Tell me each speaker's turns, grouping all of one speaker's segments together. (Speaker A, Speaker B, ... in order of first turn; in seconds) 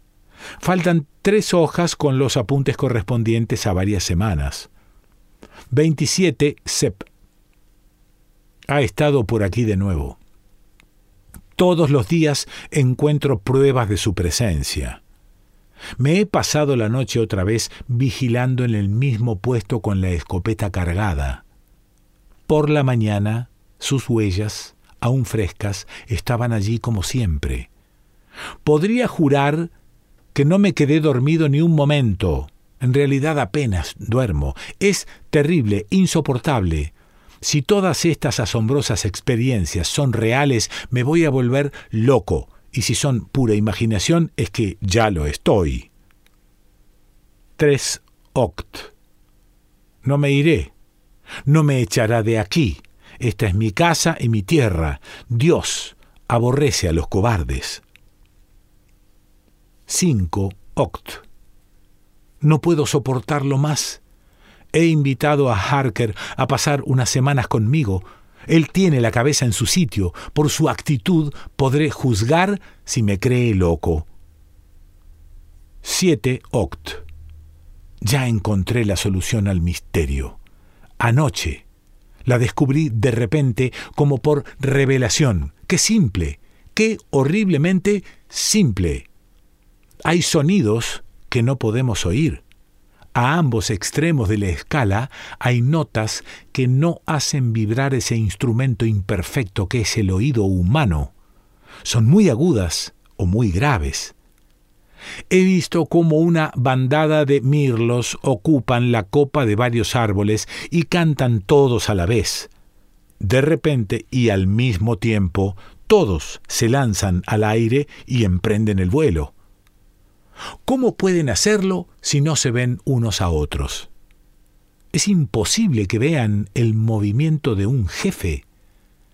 Speaker A: 0.6-4.7, 5.7-7.1, 8.7-10.2, 11.6-15.0, 16.0-21.4, 22.5-27.7, 28.6-29.7, 30.3-45.9, 47.6-48.9, 50.0-50.7, 51.5-57.8, 59.9-61.2, 62.4-64.0, 64.7-74.1, 75.8-77.0, 78.0-80.4, 81.0-81.6, 82.2-89.1, 90.0-92.4, 93.1-101.1, 101.8-104.1, 105.3-112.5, 113.2-119.3, 120.6-123.9, 124.9-128.4